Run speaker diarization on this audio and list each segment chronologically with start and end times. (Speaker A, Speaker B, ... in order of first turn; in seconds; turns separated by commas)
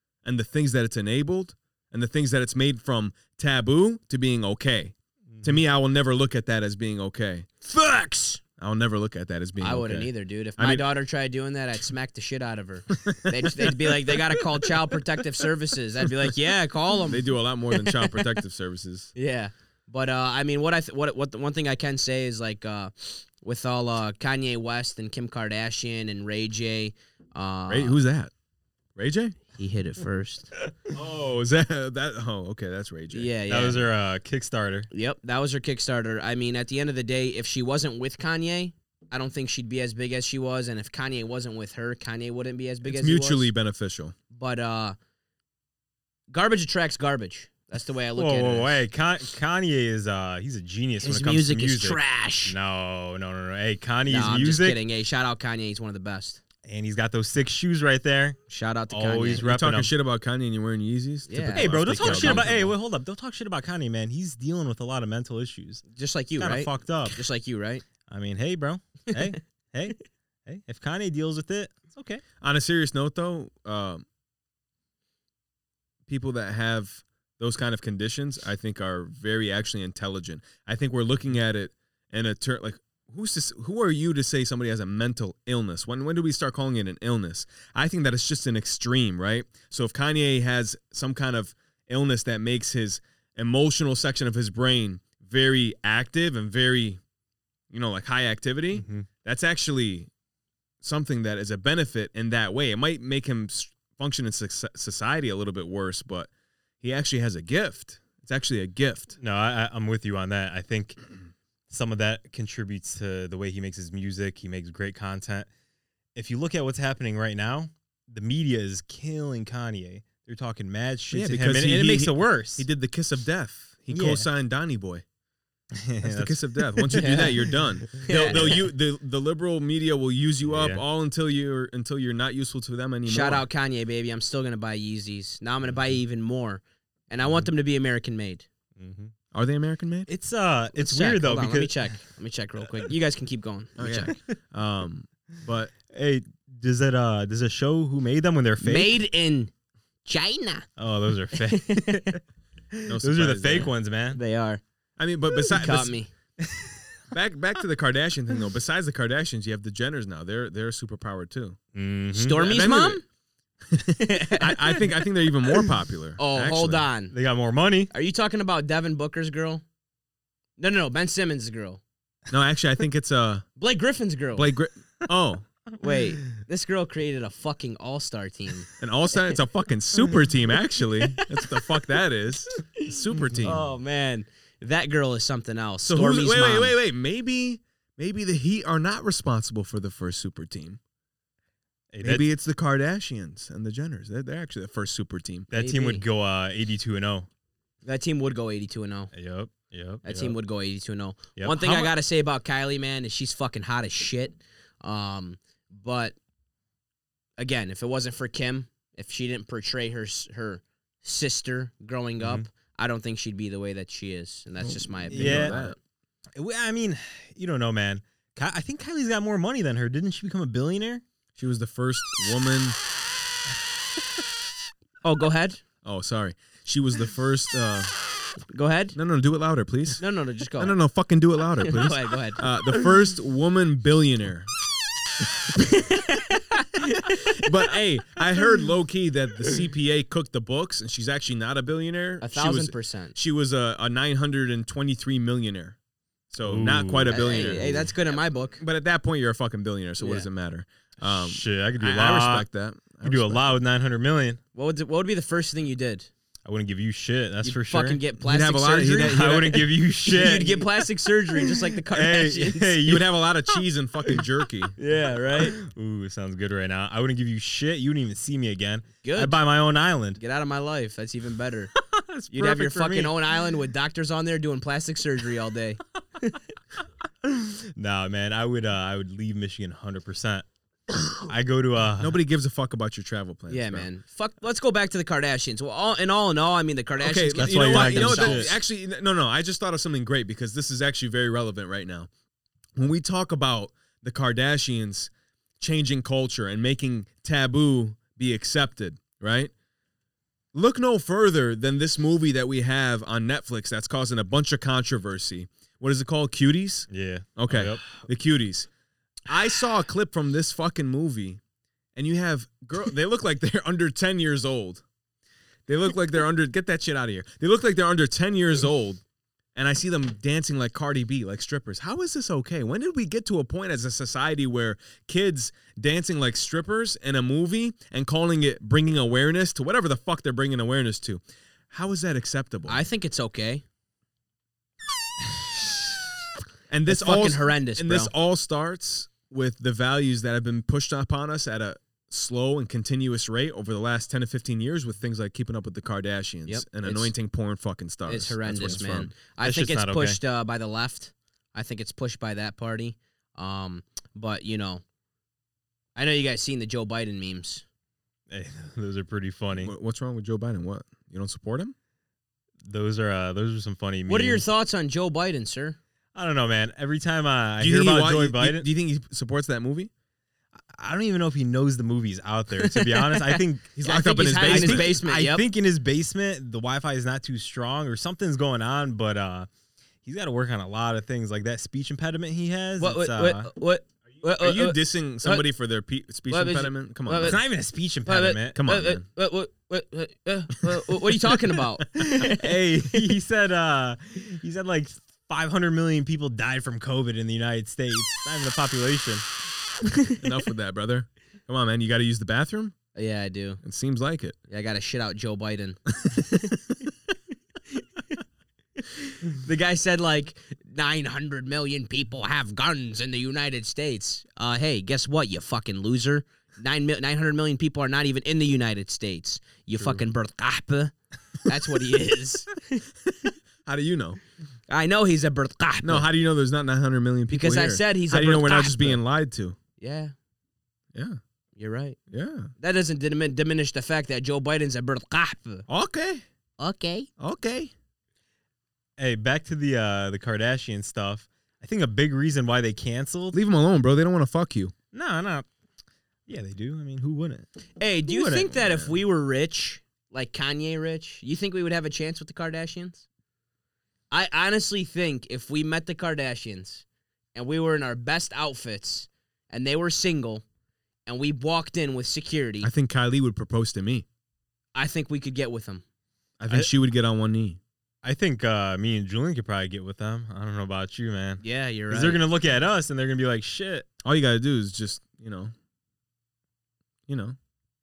Speaker A: 0.2-7.6, Speaker B: 5.3-5.6, Speaker C: 7.7-8.4, Speaker A: 8.5-10.9, Speaker C: 9.6-18.2, Speaker A: 13.0-14.4, Speaker A: 17.1-19.1, Speaker C: 19.1-28.0, Speaker A: 27.7-28.3, Speaker A: 28.9-29.4, Speaker C: 29.5-30.5, Speaker A: 30.9-33.3, Speaker C: 33.1-33.9, Speaker B: 33.5-34.9, Speaker C: 34.9-43.5, Speaker A: 42.8-44.1, Speaker C: 44.3-45.0, Speaker C: 46.3-48.8, Speaker B: 48.1-54.8, Speaker C: 51.0-52.5, Speaker C: 54.1-56.4, Speaker B: 56.6-58.4, Speaker C: 58.5-59.5, Speaker B: 58.9-59.9, Speaker A: 59.4-62.6, Speaker C: 61.3-62.7, Speaker B: 61.4-65.8, Speaker C: 65.9-67.8, Speaker B: 66.4-67.2, Speaker B: 68.1-72.2, Speaker A: 72.4-74.0, Speaker A: 76.1-97.0, Speaker A: 97.7-100.1, Speaker B: 98.7-99.0, Speaker A: 100.8-106.3, Speaker A: 106.8-109.1, Speaker B: 109.2-111.0, Speaker B: 111.7-115.5, Speaker B: 116.1-122.7, Speaker A: 121.1-125.0, Speaker B: 123.9-124.3, Speaker B: 125.8-127.3, Speaker A: 126.0-133.4, Speaker C: 126.9-128.6, Speaker B: 130.4-130.8, Speaker C: 133.1-138.4, Speaker B: 138.8-139.1, Speaker A: 139.3-140.1, Speaker B: 140.1-141.8, Speaker C: 140.7-144.2, Speaker A: 143.8-145.7, Speaker B: 145.9-148.9, Speaker C: 148.6-149.5, Speaker C: 150.1-150.7, Speaker B: 150.8-152.2, Speaker C: 151.4-152.2, Speaker A: 152.8-153.7, Speaker B: 153.0-154.2, Speaker C: 154.1-154.6, Speaker A: 155.0-155.9, Speaker C: 155.5-156.1, Speaker B: 156.4-156.8, Speaker A: 157.1-161.6, Speaker B: 161.7-162.4, Speaker C: 162.1-163.0, Speaker A: 162.3-163.0, Speaker A: 163.7-166.9, Speaker C: 163.9-164.9, Speaker C: 166.2-167.1, Speaker B: 167.1-167.9, Speaker C: 167.9-169.6, Speaker C: 170.6-171.8, Speaker A: 172.3-173.4, Speaker C: 173.6-174.5, Speaker A: 174.3-175.4, Speaker C: 175.8-179.4, Speaker A: 178.8-183.7, Speaker C: 183.4-186.8, Speaker A: 185.8-190.8, Speaker B: 191.9-192.2, Speaker A: 192.0-195.5, Speaker B: 195.5-197.3, Speaker C: 195.5-196.0, Speaker C: 197.8-199.1, Speaker B: 199.1-200.3, Speaker C: 200.0-206.2, Speaker B: 201.4-201.9, Speaker C: 207.4-215.7, Speaker B: 212.2-212.4, Speaker A: 214.6-215.8, Speaker B: 215.1-215.6, Speaker B: 216.4-221.0, Speaker A: 221.4-222.8, Speaker C: 225.0-225.6, Speaker A: 225.8-227.9, Speaker C: 228.5-229.0, Speaker A: 228.9-230.0, Speaker C: 230.0-230.8, Speaker A: 230.6-234.5, Speaker C: 231.6-232.5, Speaker C: 235.5-237.5, Speaker A: 237.3-245.8, Speaker C: 242.2-243.2, Speaker A: 246.3-247.9, Speaker B: 246.4-247.8, Speaker C: 247.1-248.6, Speaker A: 248.6-253.5, Speaker C: 250.0-250.3, Speaker B: 251.0-252.5, Speaker B: 253.0-254.4, Speaker C: 254.5-256.1, Speaker B: 256.4-258.0, Speaker C: 257.4-262.8, Speaker A: 258.2-259.6, Speaker B: 259.0-263.1, Speaker A: 262.8-264.7, Speaker C: 264.8-265.6, Speaker B: 265.4-270.2, Speaker C: 269.0-269.4, Speaker C: 270.2-271.7, Speaker B: 271.8-273.3, Speaker C: 272.3-276.4, Speaker B: 277.2-280.4, Speaker B: 281.1-282.2, Speaker A: 282.0-283.9, Speaker C: 283.5-288.5, Speaker A: 287.0-292.1, Speaker B: 287.4-288.6, Speaker A: 292.8-299.5, Speaker A: 300.5-308.7, Speaker B: 306.9-307.9, Speaker A: 309.2-311.4, Speaker A: 311.9-314.8, Speaker A: 315.7-319.0, Speaker A: 319.6-332.8, Speaker C: 332.7-333.6, Speaker A: 336.7-349.1, Speaker C: 336.9-338.1, Speaker C: 346.4-347.1, Speaker C: 348.1-354.8, Speaker B: 349.4-350.2, Speaker C: 355.9-357.6, Speaker B: 358.3-359.7, Speaker A: 359.6-361.7, Speaker B: 362.6-364.4, Speaker C: 364.1-365.8, Speaker B: 366.1-368.6, Speaker A: 367.6-369.9, Speaker B: 370.7-373.7, Speaker C: 372.6-375.4, Speaker A: 373.8-375.0, Speaker B: 374.4-379.5, Speaker B: 380.0-383.5, Speaker C: 382.8-385.5, Speaker A: 384.4-387.4, Speaker C: 386.3-387.4, Speaker B: 387.2-388.6, Speaker C: 388.1-393.1, Speaker A: 388.5-389.0, Speaker B: 392.2-399.2, Speaker A: 400.2-402.7, Speaker C: 402.9-403.6, Speaker A: 403.6-404.4, Speaker C: 404.5-405.8, Speaker C: 408.8-423.3, Speaker A: 423.6-424.2, Speaker C: 424.7-426.1, Speaker A: 425.8-429.6, Speaker C: 427.3-429.0, Speaker C: 429.8-430.1, Speaker A: 430.9-431.2, Speaker C: 431.6-432.0, Speaker A: 432.1-432.5, Speaker C: 432.6-435.6, Speaker A: 435.7-436.2, Speaker C: 436.6-437.1, Speaker A: 437.2-437.7, Speaker B: 439.0-443.4, Speaker A: 443.3-444.7, Speaker B: 444.9-445.5, Speaker B: 446.3-447.5, Speaker C: 447.8-453.0, Speaker B: 448.1-448.9, Speaker C: 454.1-456.8, Speaker C: 457.3-460.4, Speaker C: 461.1-462.7, Speaker A: 462.6-464.0, Speaker C: 464.7-465.8, Speaker A: 466.4-467.6, Speaker B: 468.0-473.9, Speaker C: 471.4-472.2, Speaker A: 474.0-475.5, Speaker A: 477.1-477.4